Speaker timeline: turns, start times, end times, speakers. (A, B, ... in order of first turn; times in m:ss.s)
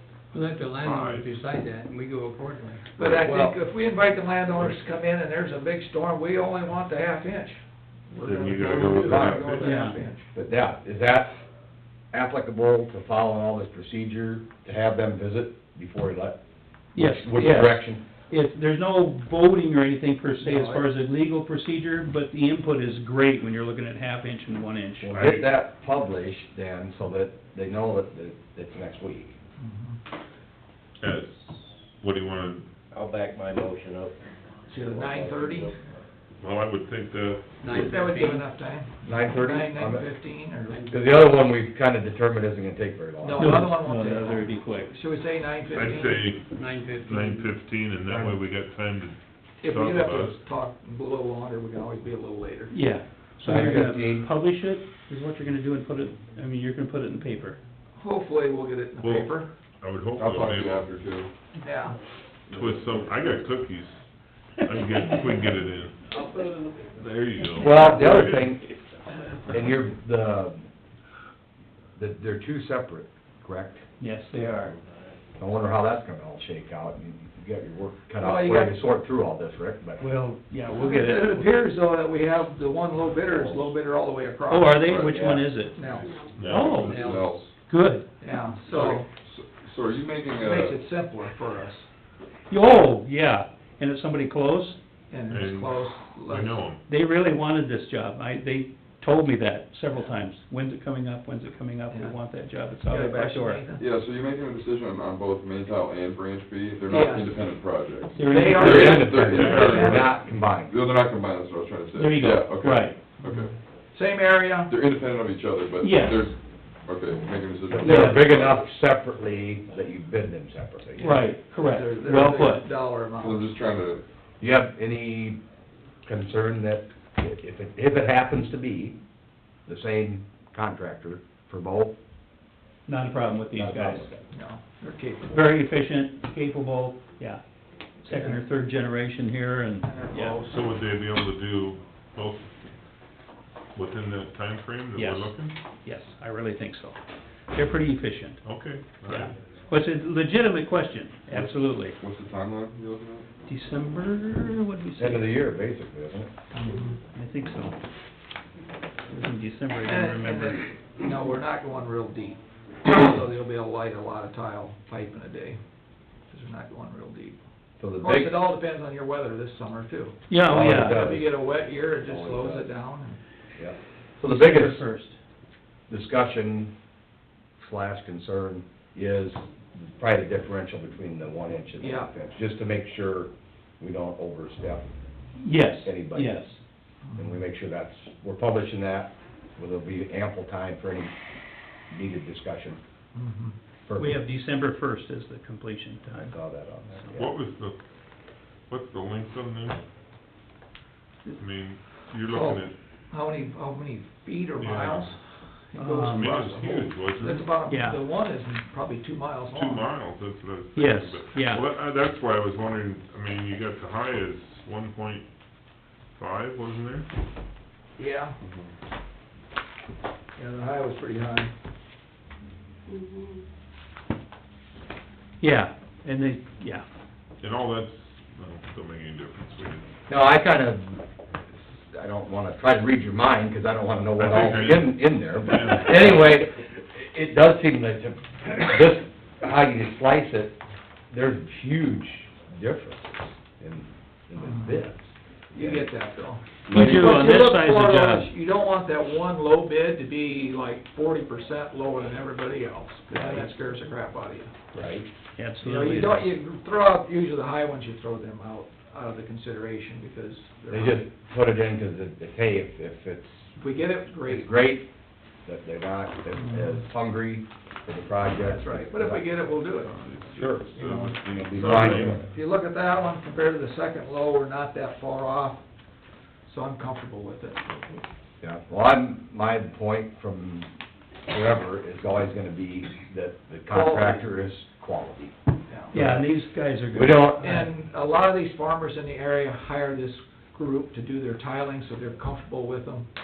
0:00.3-0:03.5 A
0:00.6-0:01.4 B
0:03.0-0:10.3 C
0:08.2-0:09.7 B
0:08.7-0:09.5 D
0:09.6-0:10.0 E
0:10.3-0:11.4 D
0:12.1-0:16.4 D
0:17.0-0:18.0 D
0:17.0-0:25.4 E
0:20.4-0:20.8 C
0:25.0-0:29.4 D
0:25.2-0:25.4 B
0:29.6-0:30.0 C
0:31.0-0:32.7 B
0:32.9-0:34.2 F
0:34.7-0:35.7 C
0:34.7-0:35.8 F
0:36.4-0:37.6 B
0:37.6-0:38.5 A
0:37.7-0:40.8 C
0:39.0-0:40.1 D
0:40.7-0:41.2 A
0:40.9-0:43.7 D
0:43.2-0:46.2 C
0:43.4-0:45.0 E
0:45.7-0:50.4 B
0:46.5-0:47.5 A
0:48.1-0:48.4 D
0:49.6-0:52.8 C
0:52.7-0:57.6 E
0:53.4-0:54.3 D
0:58.0-0:59.5 C
0:59.0-1:00.9 B
1:00.2-1:01.3 G
1:01.6-1:02.0 C
1:02.5-1:03.4 G
1:02.5-1:04.0 B
1:04.6-1:06.1 B
1:06.1-1:06.9 A
1:06.9-1:08.5 B
1:07.6-1:08.7 D
1:07.6-1:07.9 E
1:09.5-1:10.6 D
1:12.0-1:13.8 D
1:14.0-1:14.8 E
1:15.4-1:20.1 D
1:18.2-1:18.8 C
1:20.0-1:21.5 E
1:20.7-1:25.0 C
1:23.3-1:23.7 D
1:24.5-1:25.8 E
1:24.8-1:25.5 G
1:25.7-1:26.3 C
1:25.9-1:27.3 A
1:26.3-1:27.1 B
1:26.4-1:28.1 E
1:26.6-1:27.5 G
1:28.2-1:29.1 C
1:28.6-1:30.8 G
1:30.4-1:31.9 C
1:32.5-1:34.8 E
1:35.1-1:36.6 C
1:35.3-1:36.8 B
1:36.9-1:43.6 E
1:42.9-1:43.8 C
1:43.8-1:53.5 G
1:46.9-1:47.3 C
1:48.2-1:49.1 E
1:48.2-1:50.1 C
1:48.6-1:50.8 D
1:52.0-1:53.0 E
1:53.2-1:54.7 C
1:54.7-1:58.7 G
1:55.8-1:56.3 E
1:57.8-2:01.2 D
1:57.8-1:58.2 E
1:57.8-1:58.1 C
2:01.0-2:03.5 C
2:01.0-2:02.7 E
2:03.2-2:04.0 G
2:04.4-2:05.4 D
2:06.0-2:09.0 D
2:09.7-2:12.0 D
2:12.9-2:14.1 E
2:13.6-2:14.2 D
2:14.3-2:15.5 C
2:15.3-2:17.4 E
2:18.0-2:20.4 E
2:18.0-2:18.4 C
2:19.8-2:20.6 C
2:20.4-2:22.6 B
2:23.7-2:25.4 B
2:25.0-2:27.0 E
2:27.5-2:28.4 E
2:28.4-2:29.3 B
2:29.1-2:32.0 E
2:31.3-2:33.3 G
2:33.5-2:35.3 E
2:35.0-2:36.3 D
2:36.5-2:37.0 C
2:37.1-2:37.8 E
2:39.1-2:40.6 E
2:39.8-2:45.6 C
2:46.3-2:47.4 C
2:47.8-2:48.4 D
2:48.0-2:53.2 C
2:50.3-2:51.1 E
2:50.4-2:51.4 D
2:52.0-2:52.7 D
2:53.6-2:54.8 D
2:54.2-2:55.2 E
2:55.9-2:56.7 D
2:57.6-3:04.8 D
3:01.8-3:02.1 C
3:05.4-3:06.6 E
3:05.8-3:06.5 D
3:07.2-3:11.1 D
3:11.9-3:12.8 D
3:13.2-3:13.6 C
3:13.9-3:14.2 D
3:14.0-3:16.4 E
3:16.3-3:17.3 D
3:17.2-3:17.8 B
3:18.7-3:19.8 B
3:21.4-3:22.8 B
3:22.3-3:29.9 C
3:24.6-3:25.2 B
3:25.8-3:26.3 E
3:26.0-3:27.5 B
3:27.7-3:28.0 E
3:29.5-3:35.2 B
3:30.8-3:31.6 E
3:36.2-3:37.1 B
3:38.0-3:38.4 C
3:38.4-3:38.7 G
3:40.4-3:41.5 C
3:45.4-3:46.8 E
3:47.4-3:49.9 B
3:50.1-3:51.0 D
3:51.7-4:00.6 D
3:54.2-3:56.3 B
4:01.1-4:05.9 D
4:04.4-4:04.8 C
4:05.5-4:14.5 C
4:06.7-4:07.2 F
4:06.7-4:08.3 E
4:13.1-4:13.5 D
4:14.7-4:15.1 D
4:15.4-4:16.2 E
4:15.6-4:21.0 C
4:20.7-4:23.6 D
4:23.6-4:24.5 C
4:24.3-4:24.9 D
4:25.4-4:29.2 D
4:26.4-4:26.8 C
4:28.4-4:29.9 C
4:29.8-4:32.3 B
4:30.4-4:32.2 D
4:30.8-4:35.6 C
4:36.5-4:38.0 C
4:38.4-4:40.7 D
4:41.3-4:45.4 D
4:43.7-4:44.3 C
4:45.7-4:46.0 C
4:45.9-4:47.7 E
4:45.9-4:46.3 D
4:46.9-4:47.6 D
4:47.4-4:53.1 C